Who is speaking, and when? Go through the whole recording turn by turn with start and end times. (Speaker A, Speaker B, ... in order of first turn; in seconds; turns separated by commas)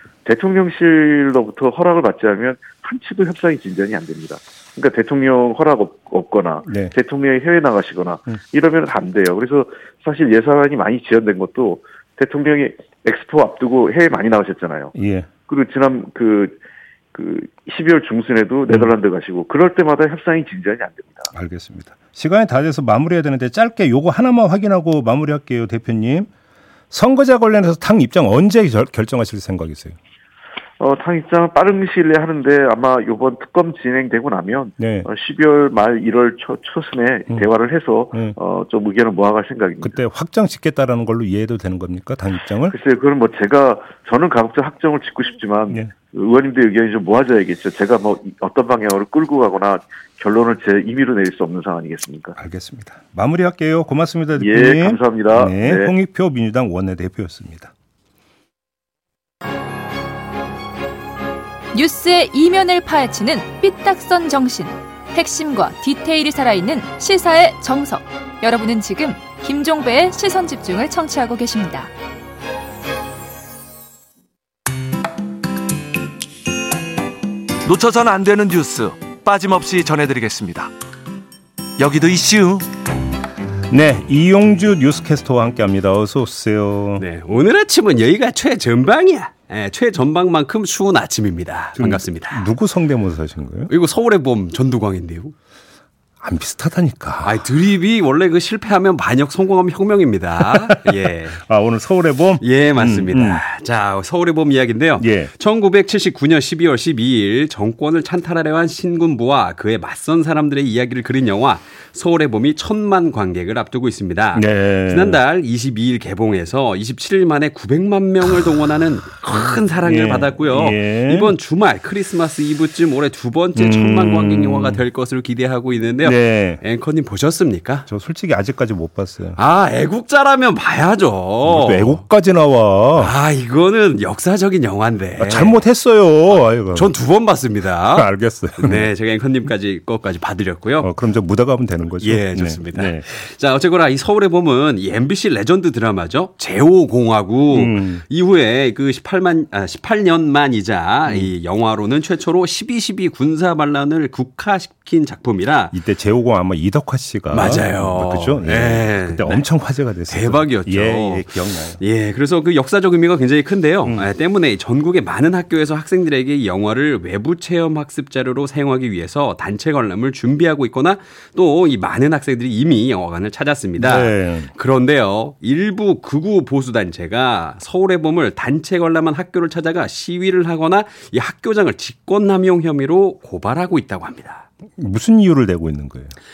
Speaker A: 0.2-14.9, Speaker B: 6.7-6.9, Speaker B: 14.9-15.3, Speaker A: 15.5-16.6, Speaker A: 17.1-21.3, Speaker B: 21.3-26.3, Speaker B: 26.9-30.0, Speaker A: 30.8-40.0, Speaker B: 34.8-35.1, Speaker B: 39.8-42.7, Speaker A: 42.7-52.4, Speaker B: 52.4-57.7, Speaker A: 54.4-55.9, Speaker C: 61.7-71.9, Speaker D: 77.6-80.7, Speaker D: 81.8-82.7, Speaker B: 83.7-87.0, Speaker E: 87.0-92.5, Speaker B: 91.8-93.7, Speaker E: 93.7-95.3, Speaker B: 96.2-97.4, Speaker E: 97.2-101.4, Speaker B: 100.5-103.4, Speaker E: 102.4-127.9, Speaker B: 105.0-105.3, Speaker B: 114.3-115.2, Speaker B: 119.8-121.3, Speaker B: 123.6-124.8, Speaker B: 126.0-126.6, Speaker B: 127.9-129.4, Speaker E: 129.4-132.0, Speaker B: 131.4-133.1, Speaker E: 133.0-135.6, Speaker B: 135.2-136.9, Speaker E: 136.6-140.9, Speaker B: 137.9-138.9, Speaker B: 140.8-143.1, Speaker E: 142.0-155.7, Speaker B: 147.5-148.0, Speaker B: 155.7-161.8, Speaker E: 157.3-159.4, Speaker E: 160.1-184.4, Speaker B: 173.8-174.5, Speaker B: 184.8-186.1